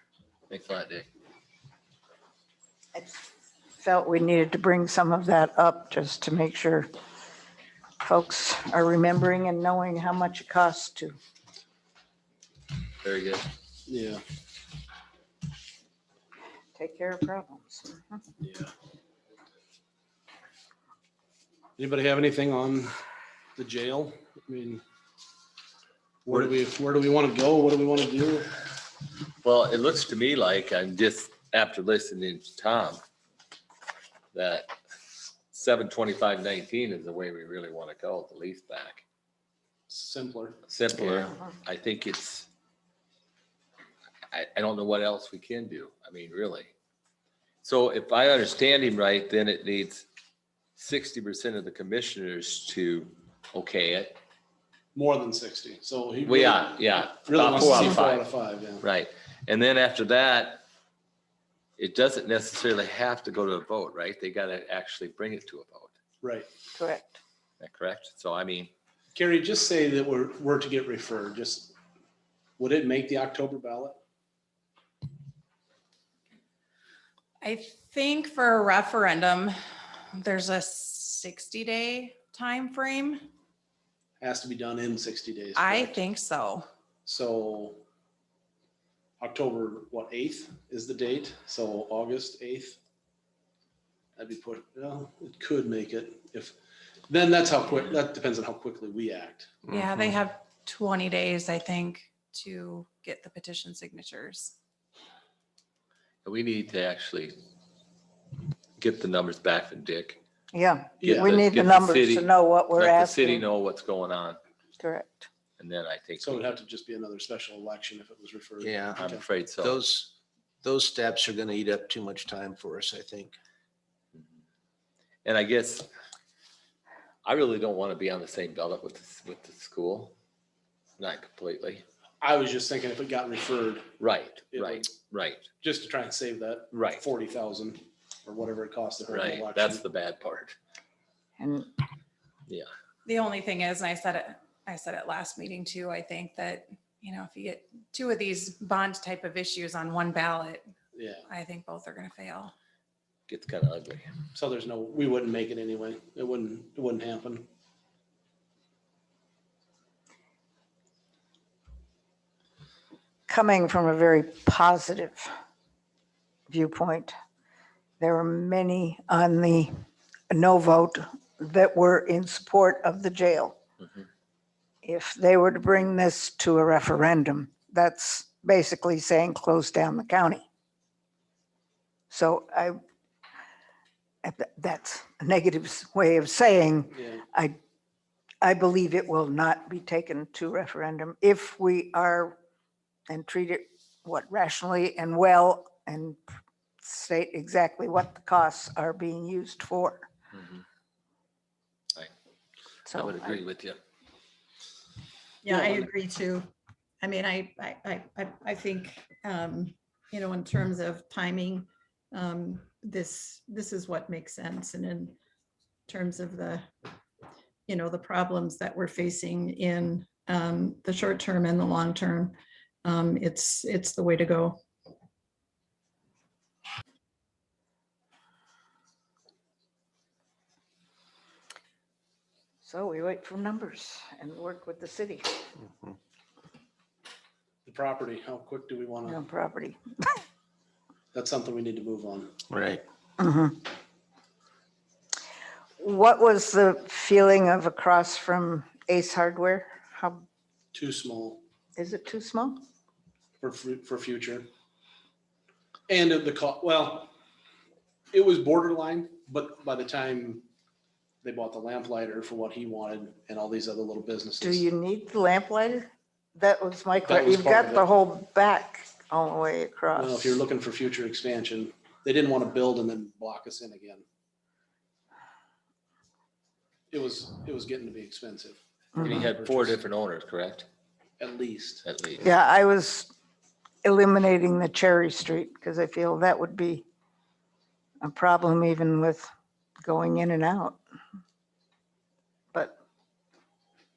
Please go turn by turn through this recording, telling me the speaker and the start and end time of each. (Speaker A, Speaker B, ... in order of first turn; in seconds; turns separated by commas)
Speaker A: 0.5-1.1, Speaker B: 3.0-3.3, Speaker B: 3.8-6.9, Speaker B: 8.0-11.2, Speaker A: 13.0-13.5, Speaker C: 13.9-14.2, Speaker B: 16.8-18.2, Speaker C: 18.4-18.7, Speaker C: 21.8-22.9, Speaker C: 23.6-24.8, Speaker C: 26.2-28.5, Speaker A: 29.4-33.0, Speaker A: 34.3-34.7, Speaker A: 35.5-39.0, Speaker C: 39.9-40.6, Speaker A: 40.7-42.5, Speaker A: 44.3-46.7, Speaker A: 47.6-50.0, Speaker A: 50.8-54.2, Speaker C: 54.9-58.9, Speaker A: 56.2-58.3, Speaker A: 58.8-60.6, Speaker A: 61.8-65.9, Speaker C: 66.2-66.5, Speaker B: 66.8-67.2, Speaker A: 67.6-68.7, Speaker C: 69.2-71.8, Speaker C: 72.6-74.0, Speaker D: 77.4-79.5, Speaker D: 80.1-83.3, Speaker C: 84.2-86.0, Speaker D: 85.6-86.7, Speaker C: 87.1-87.8, Speaker C: 89.2-92.8, Speaker C: 94.2-96.6, Speaker C: 97.1-99.7, Speaker D: 99.7-104.5, Speaker A: 106.2-107.3, Speaker A: 108.8-110.2, Speaker B: 110.5-113.5, Speaker C: 111.0-111.3, Speaker A: 111.2-114.4, Speaker B: 114.8-115.3, Speaker A: 115.6-116.5, Speaker C: 116.2-119.2, Speaker E: 118.6-119.0, Speaker A: 119.0-119.8, Speaker E: 119.6-120.1, Speaker E: 120.6-123.4, Speaker A: 125.2-125.9, Speaker A: 127.2-130.1, Speaker A: 131.0-131.8, Speaker C: 132.2-133.9, Speaker A: 134.0-135.5, Speaker C: 134.5-134.9, Speaker C: 135.6-139.8, Speaker A: 136.7-137.0, Speaker A: 139.1-140.6, Speaker B: 141.4-141.7, Speaker D: 143.1-150.7, Speaker C: 150.9-151.3, Speaker D: 151.3-152.5, Speaker A: 153.3-154.1, Speaker C: 154.3-157.4, Speaker B: 163.3-165.3, Speaker B: 166.5-167.1, Speaker B: 168.0-169.7, Speaker B: 170.3-173.6, Speaker B: 174.8-180.4, Speaker B: 182.1-182.8, Speaker B: 184.2-187.6, Speaker C: 186.9-187.2, Speaker B: 188.4-192.4, Speaker B: 193.1-196.2, Speaker B: 196.8-200.1, Speaker B: 202.9-203.3, Speaker A: 202.9-203.8, Speaker F: 205.4-206.5, Speaker F: 207.0-215.2, Speaker F: 215.9-216.7, Speaker F: 217.7-224.6, Speaker B: 232.6-235.4, Speaker C: 237.7-239.2, Speaker B: 239.1-240.2, Speaker C: 241.1-242.4, Speaker E: 242.5-242.8, Speaker B: 243.2-243.7, Speaker B: 245.8-250.2, Speaker C: 250.7-251.4, Speaker B: 251.8-252.6, Speaker C: 253.4-254.5, Speaker C: 255.9-257.1, Speaker C: 258.1-260.4, Speaker C: 261.2-264.7, Speaker B: 264.4-270.4, Speaker C: 267.0-267.9, Speaker C: 269.9-274.0, Speaker C: 276.9-279.8, Speaker A: 279.0-280.7, Speaker C: 281.2-281.8, Speaker A: 281.8-282.2, Speaker B: 282.2-283.1, Speaker B: 283.8-286.8, Speaker B: 288.0-289.3, Speaker B: 289.8-290.8